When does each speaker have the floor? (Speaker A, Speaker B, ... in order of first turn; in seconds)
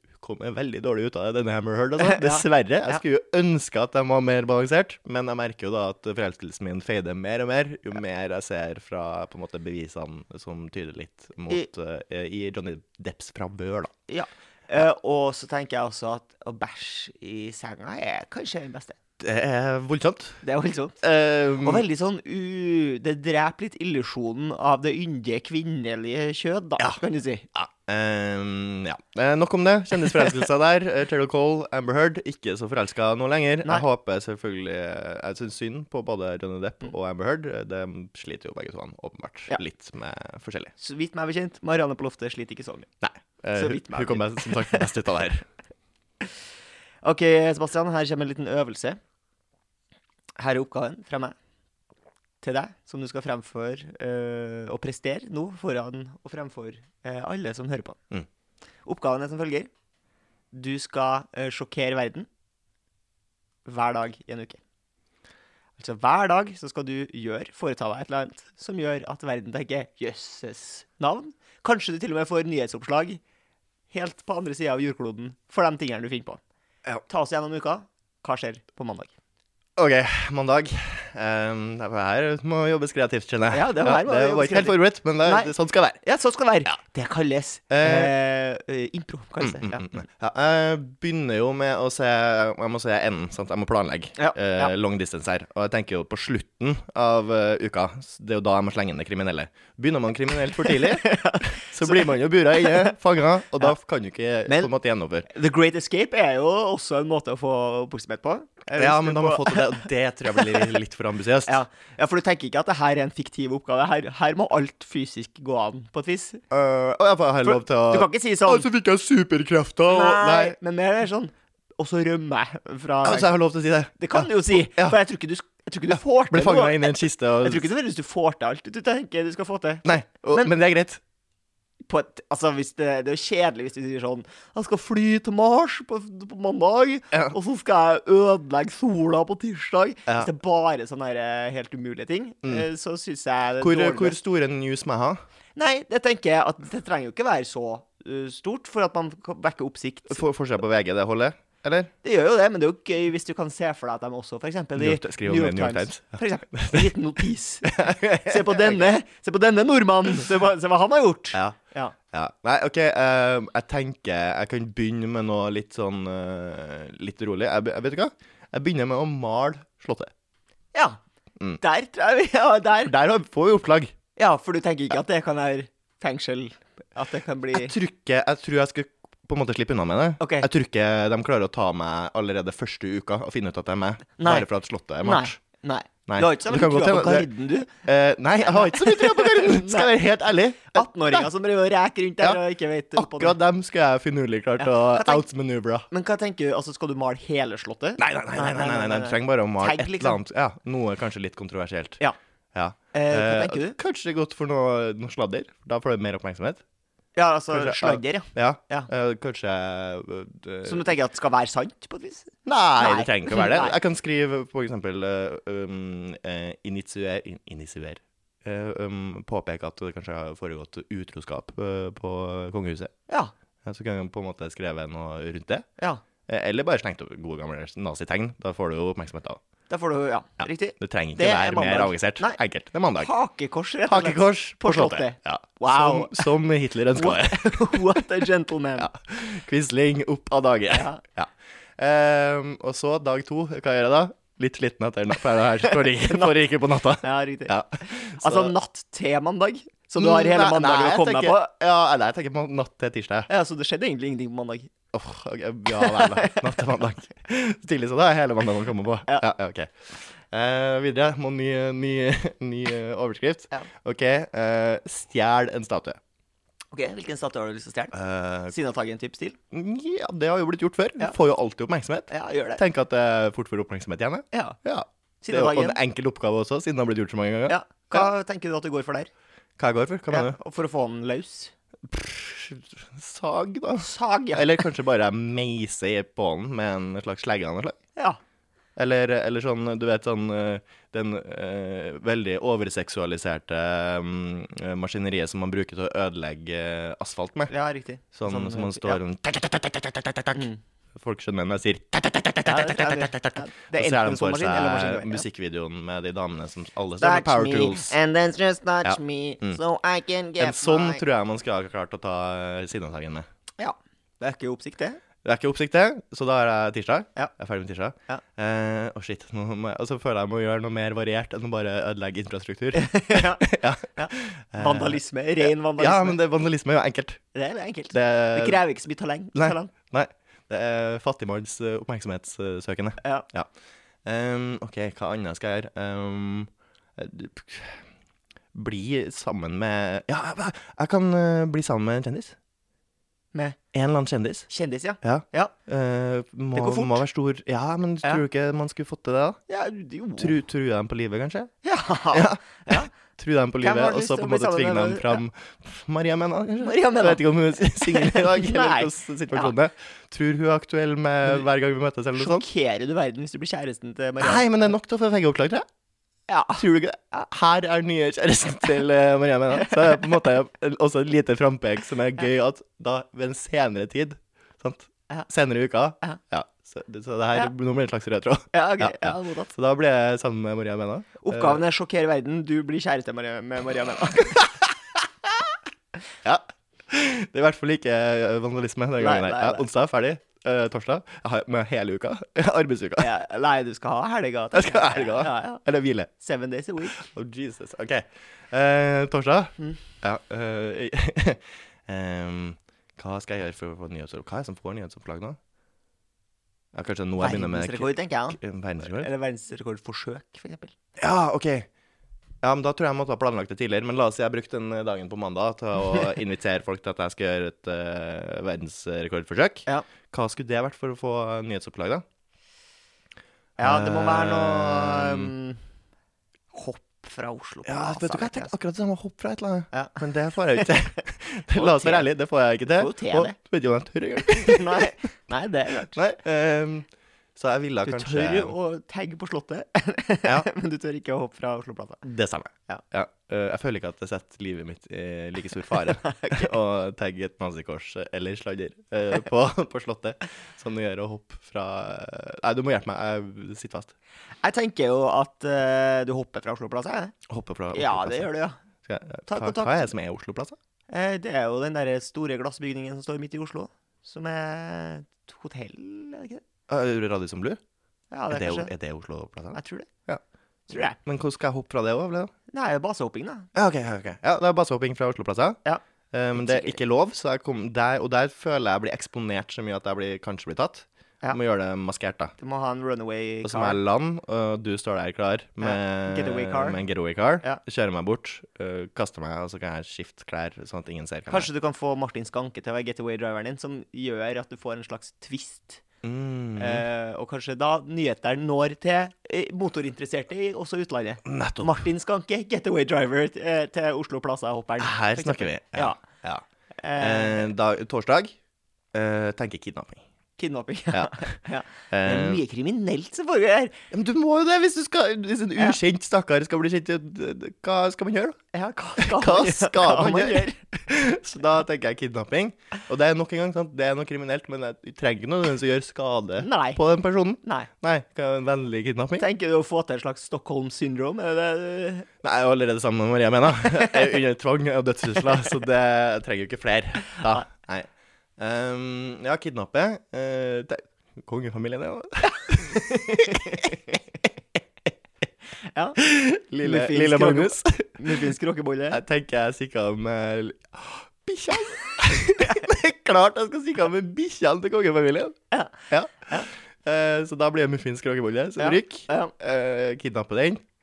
Speaker A: 0.2-13.9, 19.2-20.4, 21.0-21.8, 27.6-40.7, 43.0-45.5, 79.8-86.0, 87.7-88.1, 89.4-105.3, 108.8-111.6, 116.5-120.6, 123.0-125.0, 125.9-127.7, 129.8-131.0, 143.6-145.2, 150.1-151.9, 154.8-156.9, 157.7-158.9, 162.1-170.1, 172.9-173.9, 177.5-185.4, 186.1-191.3, 192.9-195.9, 198.0-202.0, 202.5-206.6, 207.5-210.9, 212.5-222.9, 223.6-225.7, 226.3-229.4, 230.4-233.1, 233.9-238.1, 238.8-248.5, 250.0-253.3, 254.9-266.0, 267.9-268.5, 269.5-278.1, 279.6-280.4, 281.9-287.8, 288.8-297.5, 298.1-308.0, 308.9-309.6, 310.4-313.3, 315.2-327.2, 327.9-328.6, 329.4-333.5, 334.1-337.9, 338.5-342.4, 343.7-344.5, 345.0-349.4, 350.2-351.5, 352.1-362.4, 364.2-365.7, 366.6-381.6, 386.2-393.1, 394.5-396.1, 396.9-405.4, 406.7-409.1, 411.0-411.7, 412.4-422.0, 423.6-425.3, 427.7-434.9, 435.9-438.6, 442.0-453.9, 457.3-458.3, 458.8-460.6, 466.7-467.6, 468.3-470.2, 470.7-472.3, 473.6-475.6, 476.1-482.3, 483.4-491.5, 496.0-496.9, 501.2-501.8, 504.8-506.4, 507.0-508.4, 508.9-510.1, 510.9-511.3, 511.9-512.4, 513.9-518.4, 519.0-529.2, 532.2-543.7, 546.0-548.4, 548.9-555.4, 555.9-560.6
Speaker B: 2.0-2.4, 14.1-19.0, 20.4-21.0, 21.6-27.5, 40.8-42.9, 43.5-44.8, 47.0-49.0, 50.4-51.4, 52.4-58.0, 58.9-59.7, 60.5-62.3, 63.6-64.6, 65.8-73.2, 73.9-76.4, 77.1-79.1, 83.5-90.0, 94.2-94.7, 100.6-102.9, 105.3-110.7, 111.5-116.4, 117.4-118.7, 119.9-123.3, 124.0-130.5, 131.9-144.2, 145.6-150.2, 152.0-161.9, 170.7-171.0, 171.6-172.9, 174.2-177.8, 180.2-180.5, 184.2-184.5, 185.0-187.7, 188.5-189.9, 190.7-193.4, 194.6-195.2, 195.9-200.2, 202.9-203.8, 207.2-208.9, 210.7-213.8, 229.7-232.4, 233.0-236.3, 236.9-238.9, 240.7-241.0, 245.7-246.3, 247.0-251.5, 253.3-254.7, 255.7-256.6, 266.7-268.0, 268.5-269.4, 272.1-272.6, 274.3-274.6, 275.2-275.8, 277.5-279.1, 280.1-281.5, 283.8-284.6, 297.5-299.0, 302.4-305.2, 307.0-311.0, 313.6-315.0, 322.7-326.2, 327.3-329.7, 333.0-333.3, 344.5-345.5, 346.6-347.0, 349.5-350.4, 351.6-352.9, 353.6-355.2, 356.6-359.5, 362.2-364.6, 366.3-366.6, 378.5-379.5, 381.2-384.6, 389.0-389.6, 393.0-395.6, 396.2-397.1, 407.2-410.7, 423.6-425.6, 426.5-428.5, 429.7-430.0, 431.5-432.1, 432.8-433.4, 434.2-436.0, 437.9-442.0, 446.0-446.5, 454.4-457.2, 457.7-458.6, 459.3-459.9, 460.9-466.4, 468.1-468.7, 469.5-469.9, 470.7-471.0, 472.5-473.5, 476.4-476.8, 482.4-483.8, 485.6-486.8, 491.3-495.8, 496.6-506.0, 506.8-507.5, 510.4-513.8, 518.5-520.6, 526.4-526.8, 527.4-527.7, 529.2-532.1, 542.5-543.9, 545.7-546.0, 546.6-549.0, 555.5-556.5, 558.6-559.3